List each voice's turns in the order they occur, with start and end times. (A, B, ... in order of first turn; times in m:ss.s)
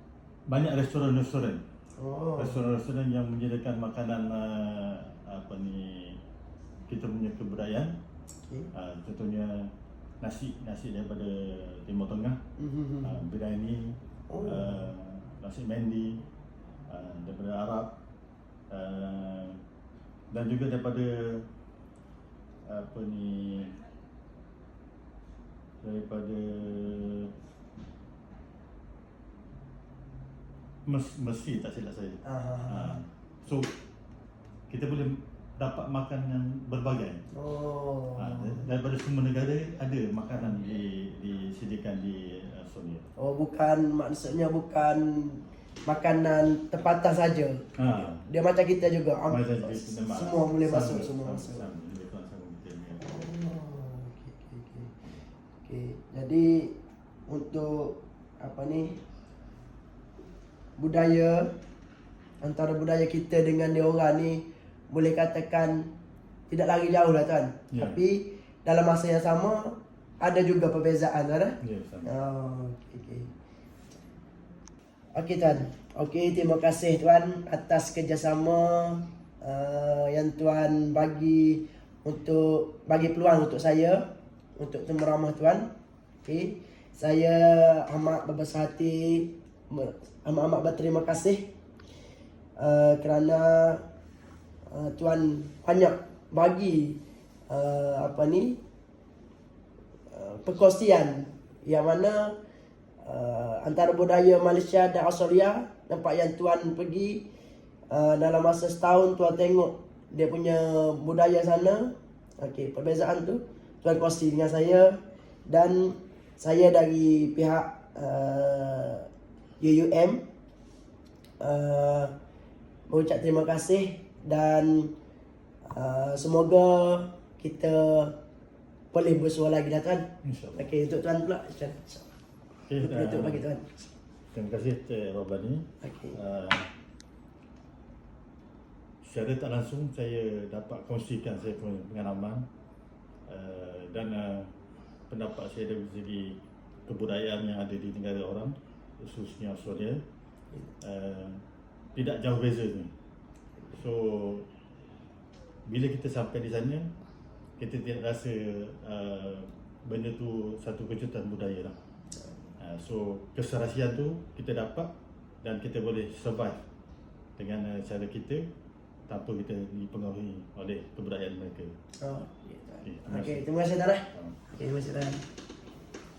0:00.5-0:01.6 A
0:02.0-0:02.6 B
0:02.4-0:06.2 A
0:06.9-0:08.0 A
0:08.7-0:09.7 A
0:10.2-0:12.4 A
0:12.6-0:13.2 B
0:13.0-0:16.2 A
0:14.3-0:14.7 B
0:16.9-0:17.9 A
0:18.7-0:19.6 A
0:20.3-0:21.4 A
0:22.7-0:23.8 A
0:25.8-0:27.3 A
0:30.9-0:33.7 A
0:32.2-0:33.0 B
0:34.7-0:37.2 A
0:37.3-0:38.7 B
0:38.2-0:43.1 A
0:43.2-0:51.7 B
0:47.8-0:48.2 A
0:49.3-0:53.1 A
0:53.0-0:54.9 B
0:55.6-0:56.7 B
0:57.3-0:59.0 B
1:00.8-1:01.5 B
1:02.4-1:05.9 B
1:06.5-1:13.3 B
1:07.7-1:08.0 A
1:11.6-1:12.1 A
1:15.2-1:24.1 B
1:24.6-1:25.7 B
1:26.2-1:31.4 B
1:32.6-1:33.8 B
1:34.7-1:37.0 B
1:37.5-1:38.6 B
1:40.1-1:42.3 B
1:43.0-1:47.2 B
1:47.9-1:55.0 B
1:55.5-1:59.1 B
1:59.6-2:00.2 B
2:01.4-2:02.1 B
2:02.9-2:04.9 B
2:05.7-2:08.2 B
2:08.9-2:10.1 B
2:10.2-2:10.7 A
2:10.6-2:12.1 B
2:12.7-2:13.4 A
2:12.8-2:13.8 B
2:14.3-2:16.7 A
2:15.8-2:16.2 B
2:19.0-2:22.4 A
2:23.3-2:24.5 A
2:25.1-2:30.0 A
2:30.8-2:31.4 A
2:32.0-2:32.9 A
2:33.7-2:34.5 A
2:35.7-2:36.9 A
2:37.6-2:41.8 A
2:42.6-2:44.9 A
2:45.4-2:46.6 A
2:47.4-2:48.5 A
2:49.1-2:51.8 A
2:52.0-2:55.2 B
2:52.8-2:53.4 A
2:54.1-2:54.4 A